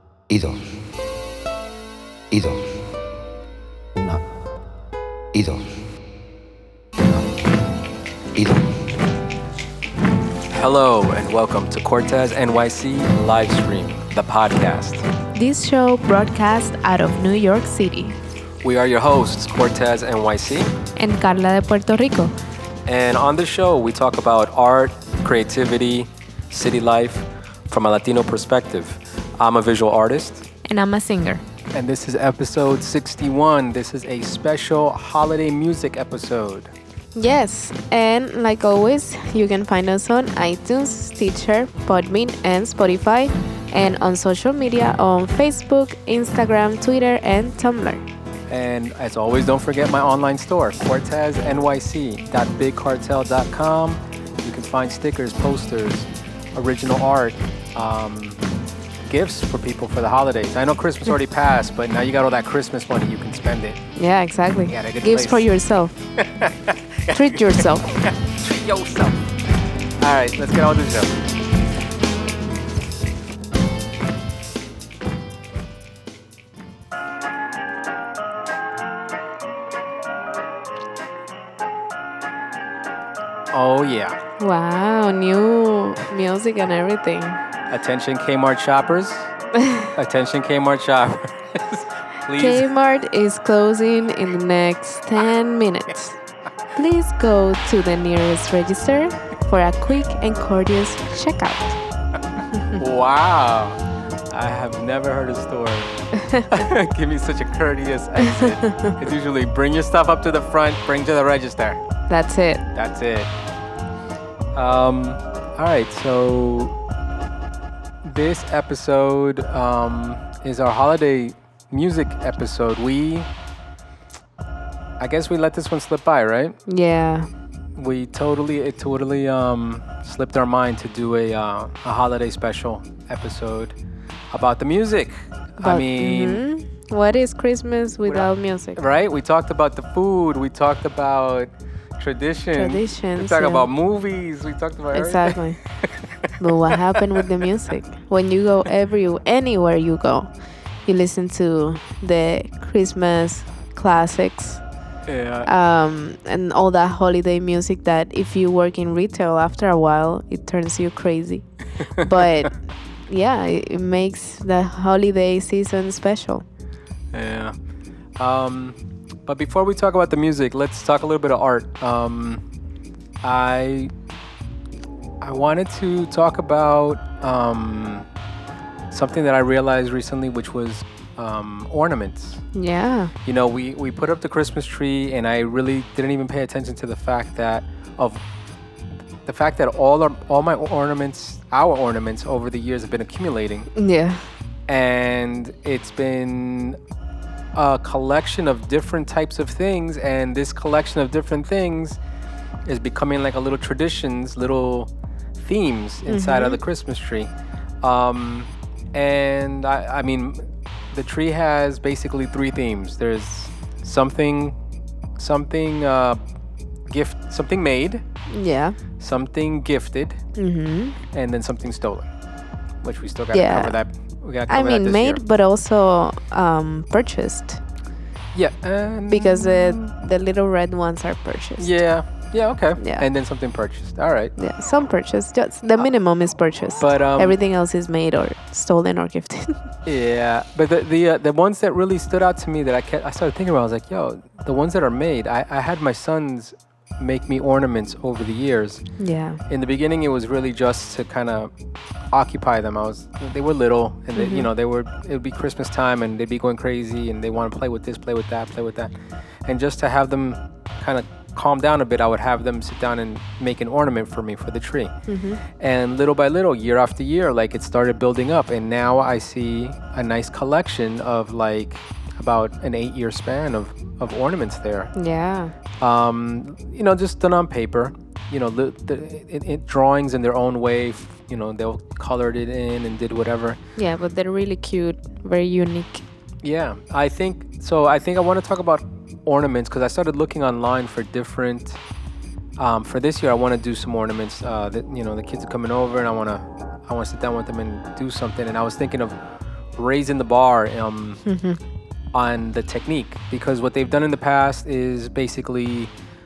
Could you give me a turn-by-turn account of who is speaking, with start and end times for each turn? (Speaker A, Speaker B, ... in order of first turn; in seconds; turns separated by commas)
Speaker A: 0.3-0.8, Speaker A: 2.3-2.9, Speaker A: 4.0-4.2, Speaker A: 5.3-5.8, Speaker A: 7.1-7.5, Speaker A: 8.3-8.9, Speaker B: 10.5-15.0, Speaker C: 15.3-18.2, Speaker B: 18.6-20.7, Speaker C: 21.0-22.3, Speaker B: 22.9-30.5, Speaker C: 30.6-31.4, Speaker B: 31.7-36.7, Speaker C: 37.1-48.0, Speaker B: 48.5-58.4, Speaker B: 59.1-63.8, Speaker C: 64.0-66.0, Speaker B: 64.7-65.4, Speaker B: 66.2-69.2, Speaker C: 67.1-67.9, Speaker B: 70.0-71.2, Speaker B: 83.5-84.2, Speaker C: 84.4-87.4, Speaker B: 87.7-89.3, Speaker B: 89.9-92.7, Speaker C: 92.4-96.2, Speaker C: 96.7-101.8, Speaker C: 102.5-102.8, Speaker B: 102.8-103.8, Speaker B: 104.3-105.9, Speaker C: 106.2-106.5, Speaker B: 106.5-111.8, Speaker C: 108.2-108.9, Speaker C: 112.1-112.6, Speaker B: 112.7-113.3, Speaker B: 114.5-116.7, Speaker B: 118.0-123.3, Speaker B: 125.0-126.5, Speaker C: 126.7-127.3, Speaker B: 127.8-133.8, Speaker B: 134.3-136.4, Speaker C: 135.6-138.8, Speaker B: 138.1-147.2, Speaker C: 142.5-143.7, Speaker C: 144.9-145.6, Speaker C: 146.4-150.3, Speaker C: 150.8-154.6, Speaker B: 155.1-155.5, Speaker C: 155.4-166.4, Speaker B: 167.1-167.6, Speaker B: 168.2-172.4, Speaker B: 173.2-173.9, Speaker B: 175.2-178.1, Speaker B: 178.9-182.4, Speaker C: 182.5-183.1, Speaker B: 183.2-188.2, Speaker B: 189.2-193.7, Speaker C: 193.8-194.2, Speaker B: 194.7-196.8, Speaker B: 197.5-202.0, Speaker B: 202.7-207.3, Speaker C: 206.1-206.6, Speaker B: 207.8-214.6, Speaker B: 215.2-216.2, Speaker B: 216.9-218.0, Speaker C: 218.3-218.8, Speaker B: 219.0-220.2, Speaker C: 220.4-221.0, Speaker B: 221.1-222.1, Speaker B: 222.8-225.2, Speaker C: 223.3-223.8, Speaker C: 224.5-227.6, Speaker B: 228.3-229.8, Speaker C: 229.1-231.7, Speaker B: 231.6-234.3, Speaker C: 232.8-233.0, Speaker C: 234.4-239.6, Speaker B: 236.8-237.4, Speaker B: 239.8-248.8, Speaker C: 249.0-249.4, Speaker B: 249.5-251.5, Speaker B: 252.1-264.9, Speaker C: 254.1-254.5, Speaker C: 265.1-265.4, Speaker B: 265.5-274.9, Speaker C: 274.9-275.5, Speaker B: 275.8-283.6, Speaker C: 283.8-286.0, Speaker B: 286.4-291.8, Speaker B: 292.6-299.2, Speaker B: 299.8-301.2, Speaker C: 301.2-301.6, Speaker B: 302.1-305.9